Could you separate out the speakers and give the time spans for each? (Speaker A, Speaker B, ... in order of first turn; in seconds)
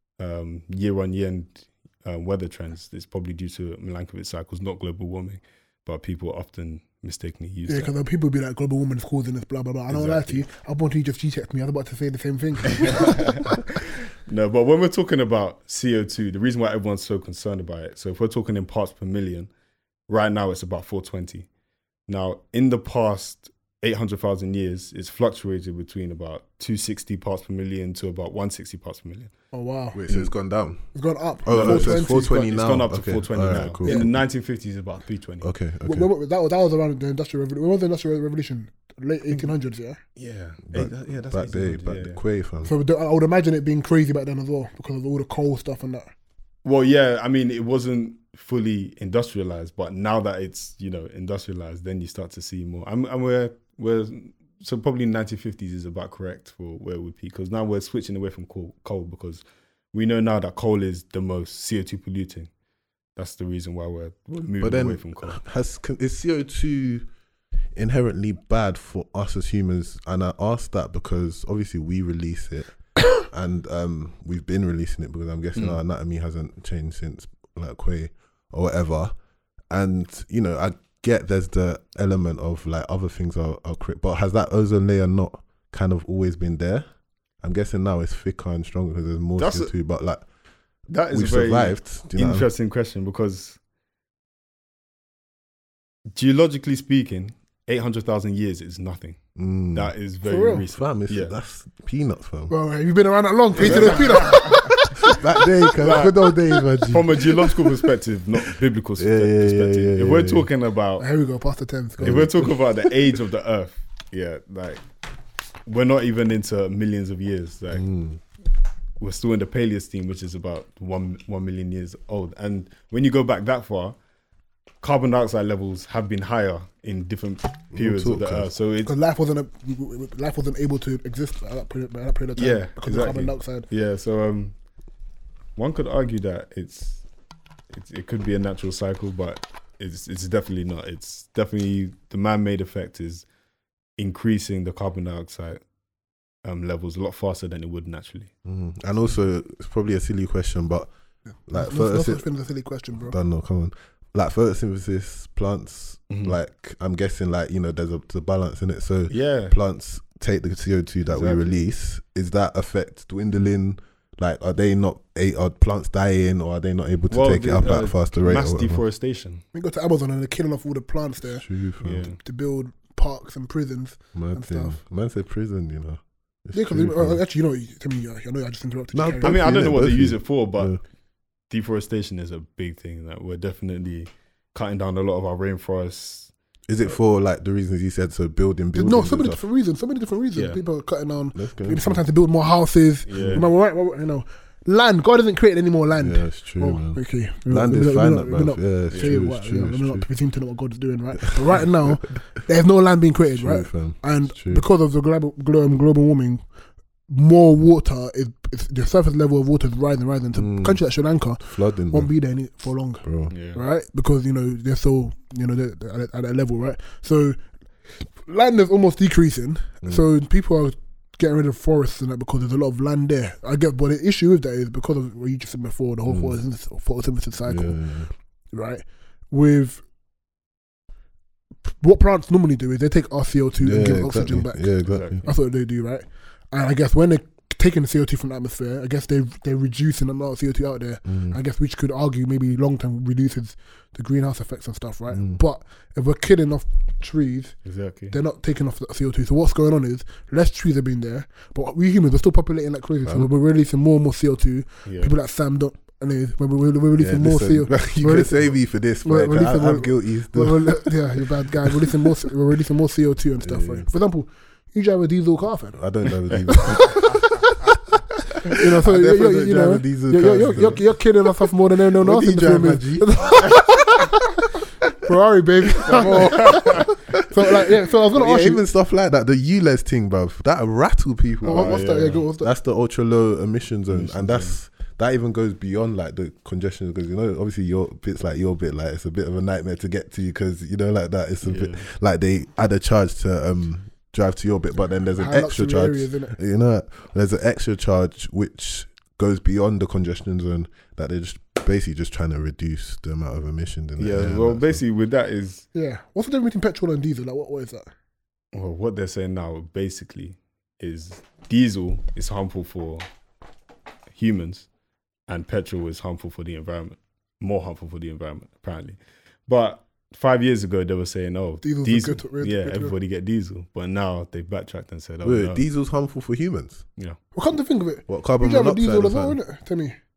Speaker A: 0.2-7.9, 9.9-10.4, 12.7-19.5, 20.1-21.5, 22.1-29.3, 31.5-35.5, 40.1-42.2, 46.6-62.5, 63.1-65.4, 89.4-89.7, 90.9-93.6, 96.1-99.2, 99.7-101.3, 103.6-104.7, 105.8-111.1, 112.0-114.8, 115.7-117.9, 119.0-124.0, 124.8-128.9, 132.3-134.5, 135.6-137.0, 137.7-143.2, 144.0-145.6, 146.4-148.3, 156.1-156.3, 159.1-159.5, 161.0-161.5, 167.1-169.4, 171.8-172.2, 179.2-180.8, 181.5-186.3, 190.3-190.6, 193.1-193.5, 198.9-199.2, 213.3-213.6, 234.8-235.3, 247.6-248.2, 254.8-255.1, 275.9-276.9, 281.4-282.2, 283.9-284.6, 291.4-291.9, 304.0-305.6, 308.5-313.1, 314.1-314.7, 315.3-325.6
Speaker B: 7.7-13.2, 29.5-30.3, 30.9-32.5, 35.8-40.0, 42.6-46.1, 100.2-100.6, 102.5-106.6, 111.0-112.5, 128.8-133.7, 151.5-153.2, 169.5-171.5, 172.0-174.8, 176.5-179.6, 188.7-206.5, 207.1-217.4, 218.0-227.8, 228.5-229.8, 231.7-247.6, 248.1-265.8, 266.4-267.2, 268.4-274.2, 275.0-278.6, 281.4-282.5, 295.2-296.4, 305.7-307.9, 321.6-322.9, 327.3-329.9
Speaker C: 29.9-30.9, 31.4-34.2, 35.4-36.1, 40.7-42.7, 64.6-67.0, 67.7-79.1, 79.7-86.8, 87.4-90.2, 91.1-92.5, 99.3-99.9, 100.7-102.5, 103.6-103.9, 105.0-107.5, 109.0-110.5, 112.0-112.5, 117.7-118.2, 127.7-128.5, 148.4-150.9, 151.5-152.2, 153.1-168.8, 171.3-172.1, 174.1-177.2, 178.9-180.8, 186.7-189.4, 191.3-192.0, 193.2-193.4, 196.0-200.1, 201.4-201.9, 203.3-204.6, 210.3-210.8, 211.4-212.1, 213.0-213.3, 226.1-226.4, 227.5-228.1, 233.6-235.2, 241.1-241.4, 245.1-245.4, 257.0-261.2, 263.4-263.9, 265.7-267.2, 268.7-271.0, 271.9-273.4, 276.5-277.1, 278.1-304.8, 325.2-326.8, 328.1-329.4